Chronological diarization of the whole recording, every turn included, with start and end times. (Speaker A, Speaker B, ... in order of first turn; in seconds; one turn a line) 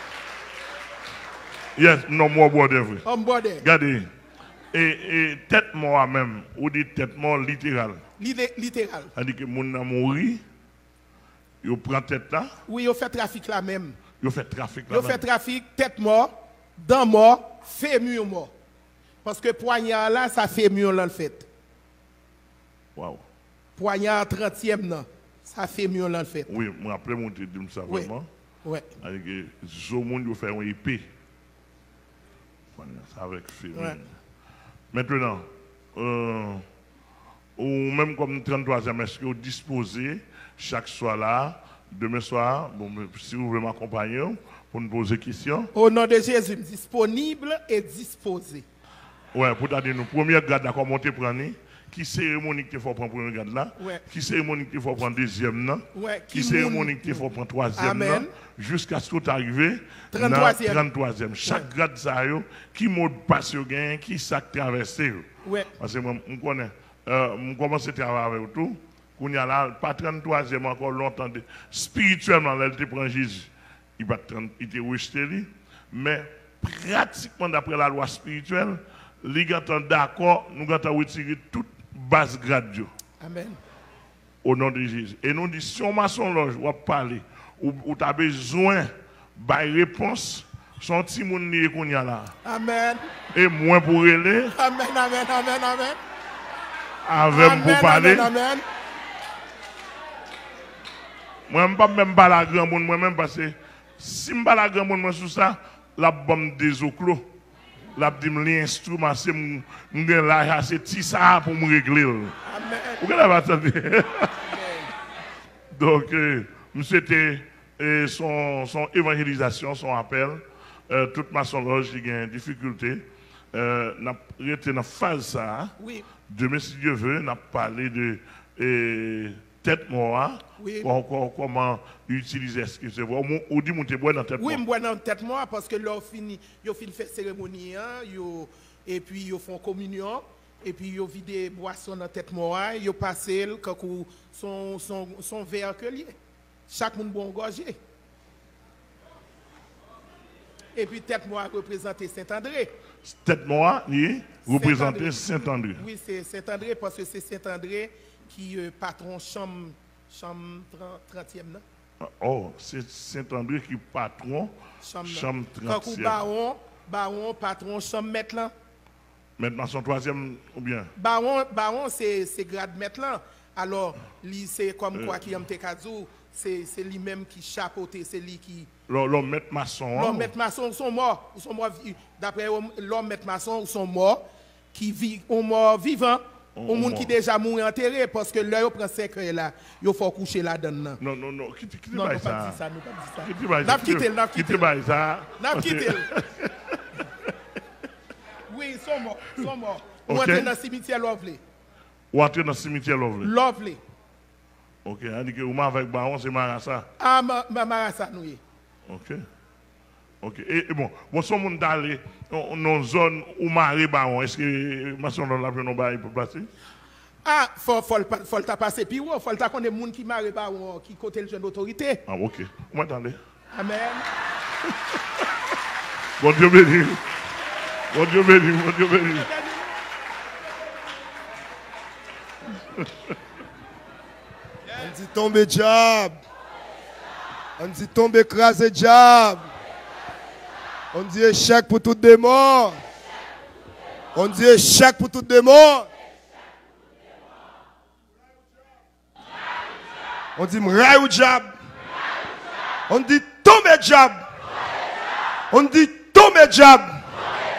Speaker A: 1.8-3.0
Speaker B: 3.0-3.6
Speaker A: 3.6-4.1
Speaker A: 4.7-8.0
Speaker B: 8.2-9.1
Speaker A: 9.1-10.4
Speaker A: 11.6-12.5
Speaker B: 12.7-14.0
Speaker A: 14.2-15.2
Speaker B: 14.9-18.5
Speaker B: 19.2-21.5
Speaker A: 22.9-23.2
Speaker B: 23.8-26.5
Speaker A: 26.5-28.3
Speaker B: 28.6-28.9
Speaker A: 29.0-31.1
Speaker A: 32.8-34.1
Speaker B: 33.7-34.0
Speaker A: 34.9-36.6
Speaker A: 37.6-45.7
Speaker B: 45.7-48.6
Speaker A: 49.3-82.9
Speaker B: 53.8-54.0
Speaker B: 55.9-58.3
Speaker B: 60.1-60.8
Speaker B: 65.4-65.7
Speaker B: 83.2-83.6
Speaker A: 84.4-92.3
Speaker B: 92.4-93.0
Speaker A: 93.3-94.5
Speaker B: 94.5-96.0
Speaker A: 97.0-98.3
Speaker B: 97.3-98.6
Speaker A: 101.5-107.3
Speaker A: 107.9-112.4
Speaker B: 112.4-113.1
Speaker A: 113.0-114.4
Speaker B: 114.4-114.9
Speaker A: 115.7-125.7
Speaker B: 125.8-126.1
Speaker A: 126.3-134.6
Speaker B: 130.6-130.9
Speaker B: 134.4-146.1
Speaker B: 146.7-147.8
Speaker B: 150.7-152.7
Speaker A: 153.0-155.8
Speaker B: 154.4-161.6
Speaker A: 162.0-166.2
Speaker B: 164.8-168.5
Speaker A: 169.4-170.9
Speaker B: 170.9-178.7
Speaker A: 174.9-175.2
Speaker A: 178.9-180.3
Speaker B: 179.9-191.0
Speaker A: 186.6-187.1
Speaker A: 191.0-192.6
Speaker B: 191.9-194.7
Speaker A: 193.2-196.7
Speaker B: 195.4-196.1
Speaker B: 198.5-201.4
Speaker A: 200.1-200.5
Speaker A: 202.1-203.3
Speaker B: 203.2-203.8
Speaker A: 204.8-206.9
Speaker B: 207.0-208.4
Speaker A: 208.9-209.2
Speaker A: 210.2-216.5
Speaker B: 217.2-222.0
Speaker A: 222.1-223.2
Speaker B: 223.5-224.1
Speaker A: 226.2-227.1
Speaker A: 227.9-229.3
Speaker B: 229.1-229.7
Speaker C: 234.8-236.2
Speaker C: 237.6-239.5
Speaker C: 240.9-242.8
Speaker C: 244.1-245.9
Speaker C: 250.3-251.5
Speaker C: 252.9-254.3
Speaker C: 255.5-257.0